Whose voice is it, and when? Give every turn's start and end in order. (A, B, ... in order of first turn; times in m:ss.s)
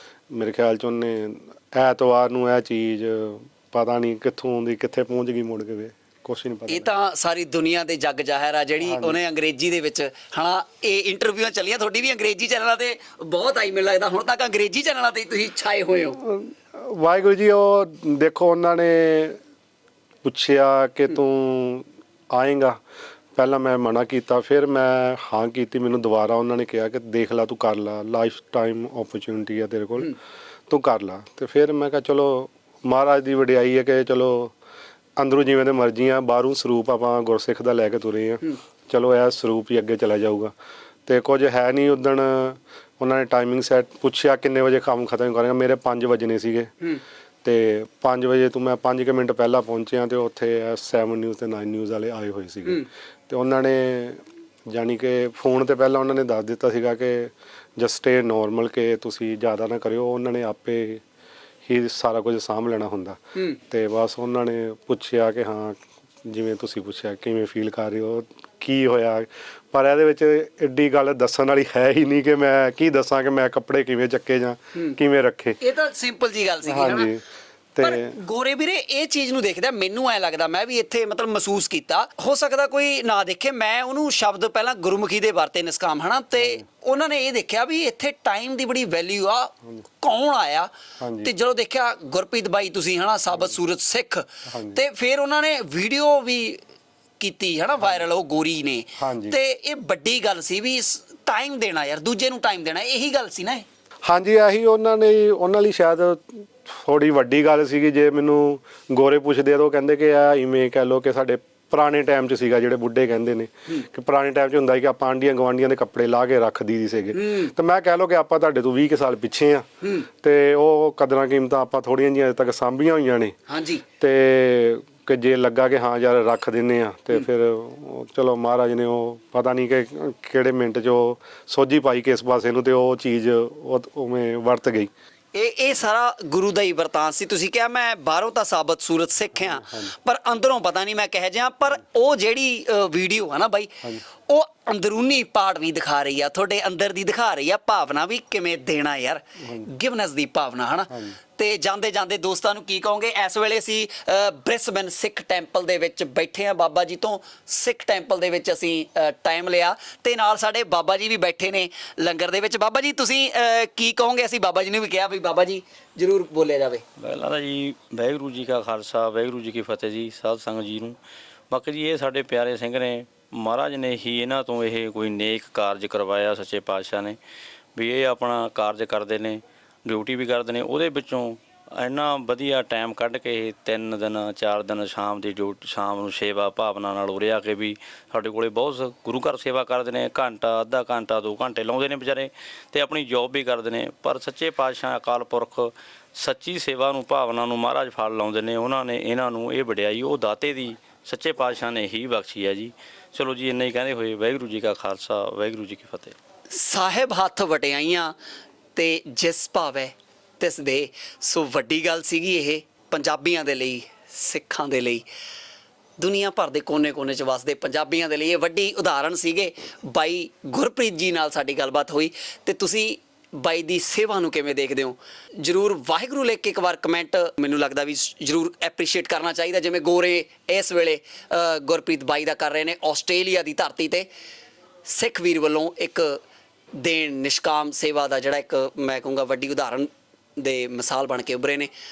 0:00.3-0:07.0 A
0:06.7-0:16.2 B
0:08.8-0:09.2 A
0:16.2-0:19.4 A
0:20.2-0:22.8 A
0:23.3-0:30.1 A
0:30.7-0:34.5 A
0:35.2-0:40.5 A
0:41.0-0:46.7 A
0:47.4-1:01.0 A
1:01.6-1:15.6 A
1:15.6-1:17.1 B
1:16.6-1:17.2 A
1:17.7-1:18.2 A
1:17.8-1:30.7 B
1:26.4-1:26.6 A
1:31.0-1:31.3 A
1:31.2-1:36.6 B
1:34.5-1:34.8 A
1:37.2-1:43.6 B
1:39.0-1:39.4 A
1:44.0-1:59.6 A
1:57.1-1:57.5 B
1:59.8-2:00.1 B
2:00.2-2:03.3 A
2:03.5-2:03.8 B
2:04.0-2:14.9 A
2:15.3-2:46.8 B
2:19.5-2:19.9 A
2:30.9-2:31.2 A
2:47.0-2:51.0 C
2:51.5-2:57.2 C
2:57.8-3:26.2 C
3:26.5-3:28.1 B
3:28.7-3:35.0 B
3:36.0-3:54.1 B
3:54.8-3:56.2 B
3:56.8-4:01.7 B